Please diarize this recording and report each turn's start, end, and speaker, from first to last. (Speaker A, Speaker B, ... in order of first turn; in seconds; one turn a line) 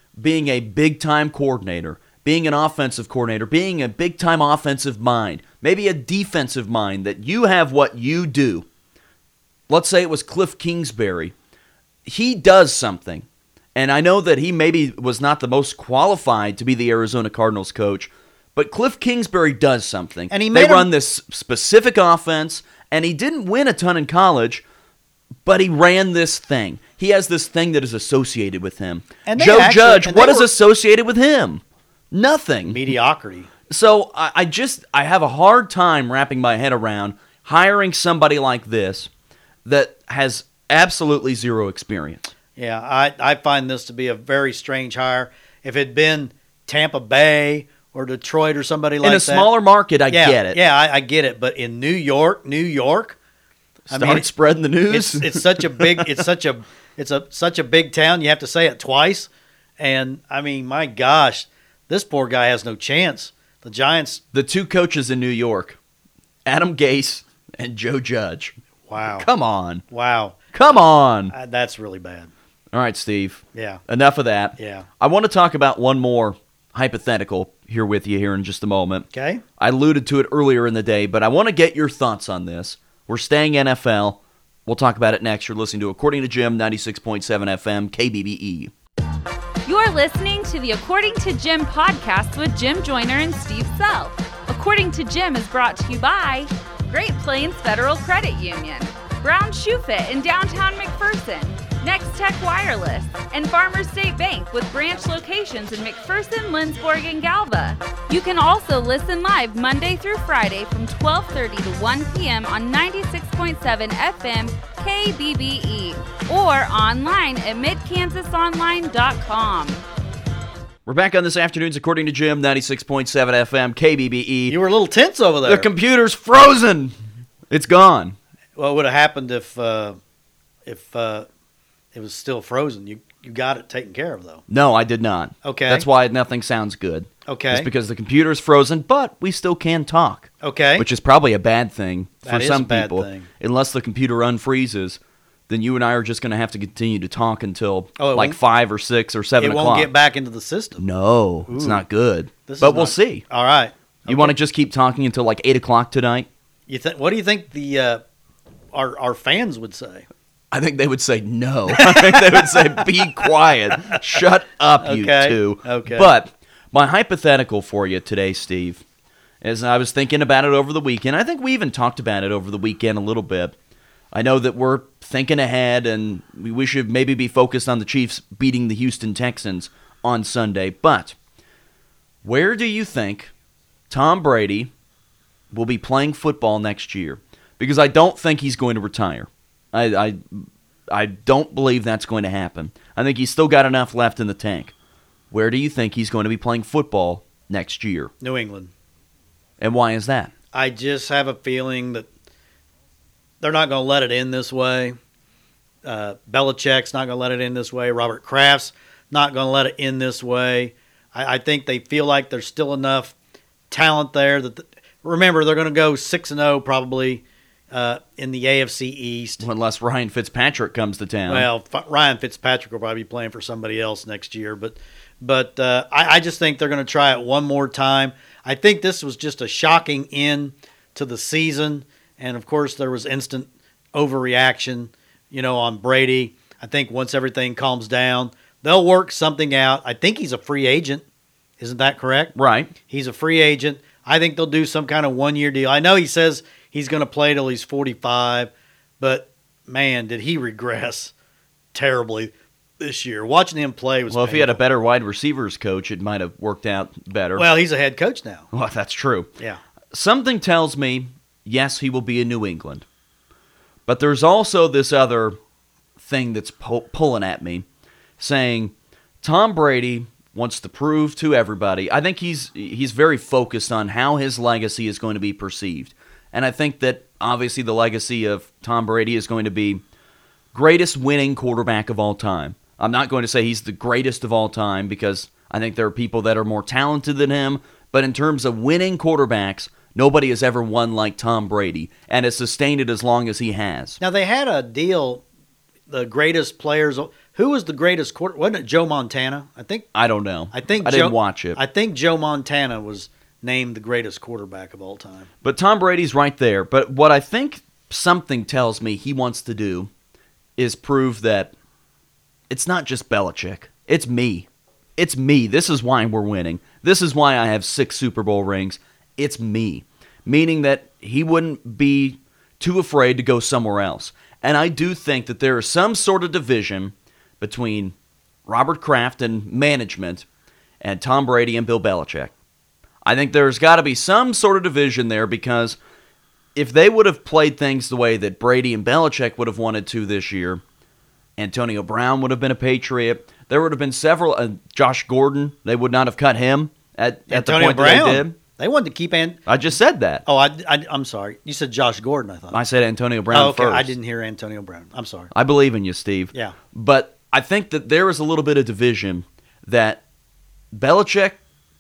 Speaker A: 0.2-8.7
Speaker A: 9.7-11.3
Speaker A: 12.1-24.6
Speaker B: 20.3-20.9
Speaker A: 25.4-32.8
Speaker B: 29.3-30.5
Speaker B: 32.7-33.5
Speaker A: 33.7-39.1
Speaker A: 39.6-42.3
Speaker B: 42.6-49.5
Speaker A: 49.0-50.6
Speaker B: 50.1-53.2
Speaker A: 53.9-56.2
Speaker B: 53.9-54.3
Speaker B: 54.9-64.2
Speaker A: 64.3-65.8
Speaker A: 66.5-68.5
Speaker B: 68.9-69.3
Speaker A: 69.1-69.8
Speaker B: 69.9-70.4
Speaker A: 70.5-71.3
Speaker B: 71.3-72.3
Speaker A: 72.7-79.1
Speaker B: 73.5-73.8
Speaker B: 74.6-74.9
Speaker B: 79.1-79.4
Speaker A: 79.6-88.7
Speaker C: 89.7-119.9
Speaker A: 120.9-124.6
Speaker B: 124.5-125.7
Speaker A: 125.5-127.0
Speaker A: 127.5-128.2
Speaker B: 128.6-130.0
Speaker B: 130.7-131.3
Speaker B: 131.9-134.4
Speaker A: 134.5-149.9
Speaker B: 135.4-135.8
Speaker B: 137.3-137.7
Speaker B: 140.4-140.9
Speaker B: 142.2-143.3
Speaker B: 148.0-148.4
Speaker B: 149.4-150.8
Speaker A: 150.8-153.2
Speaker B: 151.5-151.8
Speaker B: 152.5-154.3
Speaker A: 154.1-156.3
Speaker B: 156.7-158.0
Speaker B: 158.7-160.1
Speaker A: 160.5-168.8
Speaker B: 161.7-163.3
Speaker B: 164.8-166.1
Speaker A: 169.4-173.5
Speaker A: 174.1-181.2
Speaker A: 182.2-183.3
Speaker A: 183.9-184.7
Speaker A: 185.5-194.7
Speaker A: 195.3-198.1
Speaker B: 198.2-198.7
Speaker A: 199.6-200.3
Speaker B: 200.5-202.1
Speaker B: 203.4-205.0
Speaker B: 205.8-213.1
Speaker B: 213.7-219.4
Speaker A: 219.4-221.5
Speaker B: 221.3-241.0
Speaker B: 241.6-242.3
Speaker A: 242.3-242.7
Speaker B: 242.9-251.1
Speaker B: 251.7-254.6
Speaker A: 254.1-257.5
Speaker B: 257.4-258.5
Speaker A: 258.5-259.3
Speaker A: 259.9-262.9
Speaker A: 263.9-265.4
Speaker A: 266.0-267.7
Speaker A: 268.2-279.8
Speaker A: 280.5-294.0
Speaker B: 294.0-295.2
Speaker B: 295.9-299.9
Speaker A: 299.9-301.6
Speaker B: 300.5-305.3
Speaker A: 305.4-309.9
Speaker A: 310.6-311.5
Speaker A: 312.5-327.9
Speaker A: 328.5-330.3
Speaker A: 330.8-332.3
Speaker A: 333.0-335.8
Speaker A: 336.6-340.6
Speaker A: 341.4-348.4
Speaker B: 347.3-349.4
Speaker A: 349.5-350.2
Speaker B: 350.3-352.6
Speaker A: 352.5-353.9
Speaker B: 353.3-355.3
Speaker A: 355.3-360.0
Speaker A: 360.7-361.4